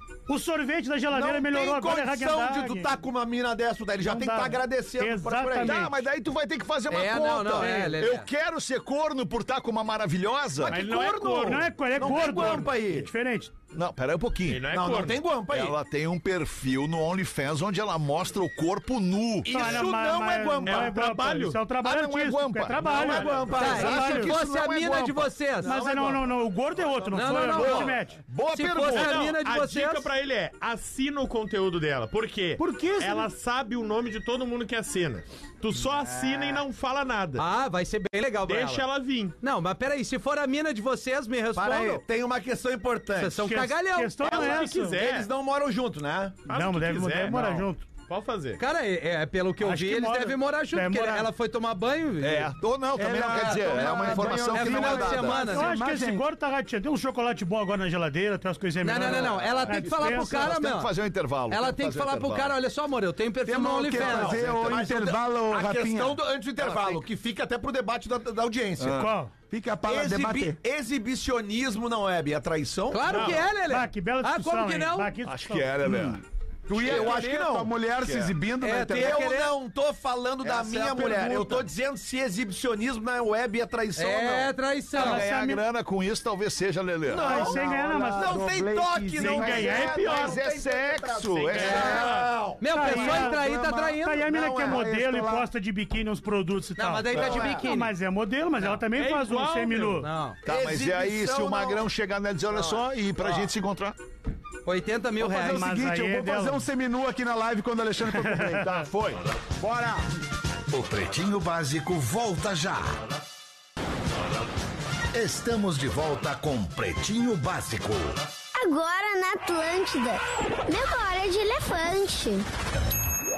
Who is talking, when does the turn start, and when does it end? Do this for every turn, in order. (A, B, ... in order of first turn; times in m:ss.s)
0:00.3-0:02.9 A
0:01.1-0:05.9 B
0:04.0-0:06.0 A
0:05.6-0:10.8 C
0:06.9-0:08.3 D
0:07.6-0:08.0 A
0:10.6-0:13.1 B
0:10.7-0:11.7 E
0:11.4-0:13.6 A
0:13.7-0:14.6 C
0:14.5-0:15.2 E
0:14.7-0:15.8 B
0:15.4-0:19.9 C
0:19.5-0:20.9 B
0:19.5-0:24.4 A
0:19.5-0:19.8 E
0:20.6-0:21.7 E
0:21.8-0:25.4 C
0:22.7-0:23.7 E
0:22.8-0:24.2 B
0:23.6-0:25.7 D
0:25.6-0:27.5 B
0:25.6-0:28.2 A
0:27.1-0:28.0 D
0:27.5-0:29.4 C
0:28.5-0:30.1 D
0:28.9-0:37.4 E
0:32.6-0:33.3 A
0:36.2-0:36.6 B
0:37.4-0:38.9 D
0:38.5-0:39.4 E
0:39.4-0:42.0 D
0:41.6-0:43.6 B
0:43.2-0:44.3 D
0:43.4-0:45.0 A
0:44.2-0:45.3 E
0:44.3-0:46.4 B
0:46.5-0:48.6 E
0:46.5-0:47.9 A
0:48.6-0:52.5 D
0:49.6-0:51.3 A
0:52.2-0:55.6 C
0:53.0-0:56.2 F
0:53.3-0:55.7 D
0:55.4-1:00.5 A
0:58.8-1:00.9 D
0:59.0-1:02.6 C
1:01.5-1:04.5 D
1:03.4-1:06.2 F
1:03.9-1:09.1 B
1:06.6-1:07.0 C
1:08.8-1:09.1 C
1:08.9-1:09.3 A
1:09.5-1:10.6 F
1:09.8-1:13.4 B
1:12.9-1:15.1 D
1:13.1-1:13.4 E
1:13.5-1:15.9 A
1:15.2-1:17.2 C
1:16.7-1:17.7 B
1:16.7-1:19.3 F
1:18.0-1:18.3 C
1:18.6-1:19.5 D
1:18.9-1:24.5 B
1:20.5-1:21.7 F
1:24.0-1:25.3 D
1:25.0-1:25.6 A
1:25.0-1:27.5 C
1:27.1-1:28.5 A
1:27.1-1:32.6 B
1:27.3-1:30.0 F
1:29.2-1:30.4 E
1:29.6-1:32.1 C
1:31.5-1:32.3 E
1:31.6-1:34.3 D
1:32.7-1:33.5 A
1:32.8-1:35.5 F
1:34.0-1:40.1 A
1:34.4-1:34.8 B
1:36.8-1:37.9 D
1:37.1-1:37.6 B
1:38.7-1:40.0 E
1:40.0-1:40.4 D
1:40.4-1:44.0 C
1:40.5-1:41.8 B
1:44.6-1:45.8 D
1:45.2-1:48.8 F
1:45.4-1:46.6 A
1:48.2-1:48.6 A
1:48.6-1:49.2 C
1:49.6-1:50.1 F
1:50.7-1:53.0 G
1:55.1-1:58.3 G
1:58.6-2:02.5 H